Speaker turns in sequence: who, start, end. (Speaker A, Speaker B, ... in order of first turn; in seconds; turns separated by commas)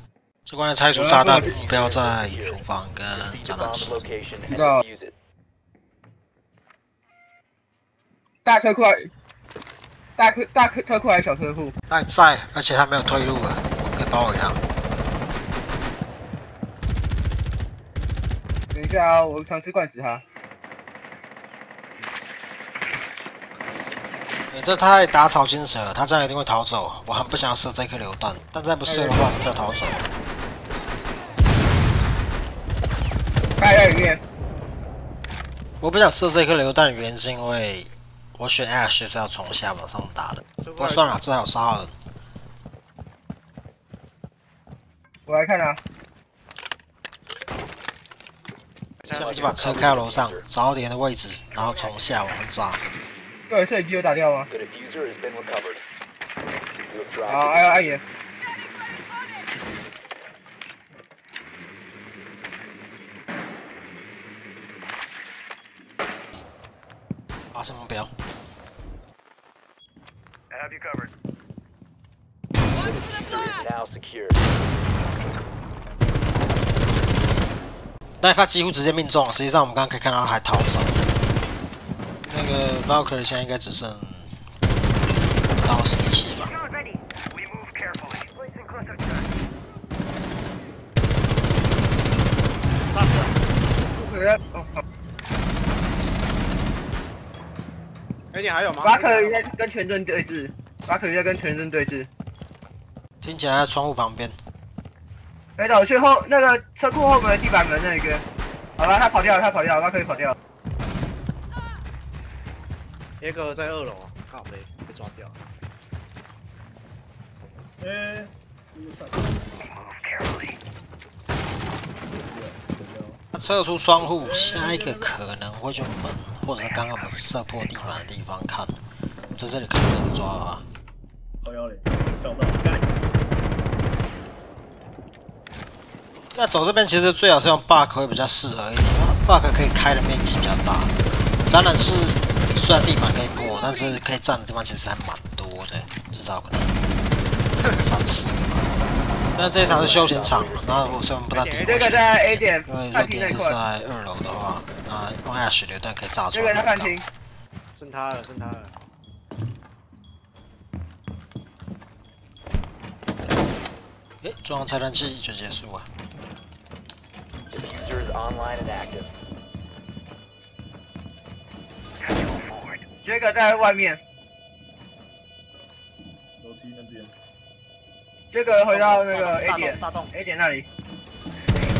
Speaker A: 0.5-4.1, Speaker B: 0.9-1.5, Speaker C: 1.3-5.1, Speaker B: 4.5-4.8, Speaker B: 8.4-9.1, Speaker B: 10.2-11.7, Speaker A: 11.9-14.6, Speaker B: 18.7-20.2, Speaker A: 24.5-30.1, Speaker B: 28.9-29.3, Speaker B: 33.6-34.2, Speaker A: 35.8-41.9, Speaker D: 40.6-41.2, Speaker B: 45.2-45.8, Speaker D: 49.0-49.8, Speaker C: 49.1-50.5, Speaker A: 49.1-52.9, Speaker B: 53.5-54.5, Speaker C: 54.5-55.8, Speaker C: 56.9-57.9, Speaker B: 57.3-58.0, Speaker A: 67.5-68.1, Speaker C: 72.7-74.5, Speaker A: 78.2-81.0, Speaker A: 82.2-84.3, Speaker A: 85.6-86.6, Speaker D: 92.9-93.3, Speaker B: 93.9-94.8, Speaker D: 98.3-99.5, Speaker B: 98.8-102.1, Speaker A: 103.2-104.3, Speaker B: 105.6-108.2, Speaker B: 108.8-110.3, Speaker D: 113.2-115.4, Speaker E: 117.8-119.3, Speaker E: 122.3-123.2, Speaker A: 123.3-128.8, Speaker A: 129.3-130.7, Speaker E: 131.4-132.9, Speaker A: 136.3-140.9, Speaker A: 141.4-146.8, Speaker A: 147.8-148.7, Speaker A: 149.3-157.0, Speaker C: 149.6-151.0, Speaker D: 151.3-152.0, Speaker B: 151.6-153.6, Speaker B: 156.3-157.0, Speaker D: 157.7-158.7, Speaker A: 164.2-165.9, Speaker C: 167.5-169.1, Speaker B: 173.0-174.0, Speaker E: 176.4-177.1, Speaker B: 178.3-180.7, Speaker D: 178.7-180.1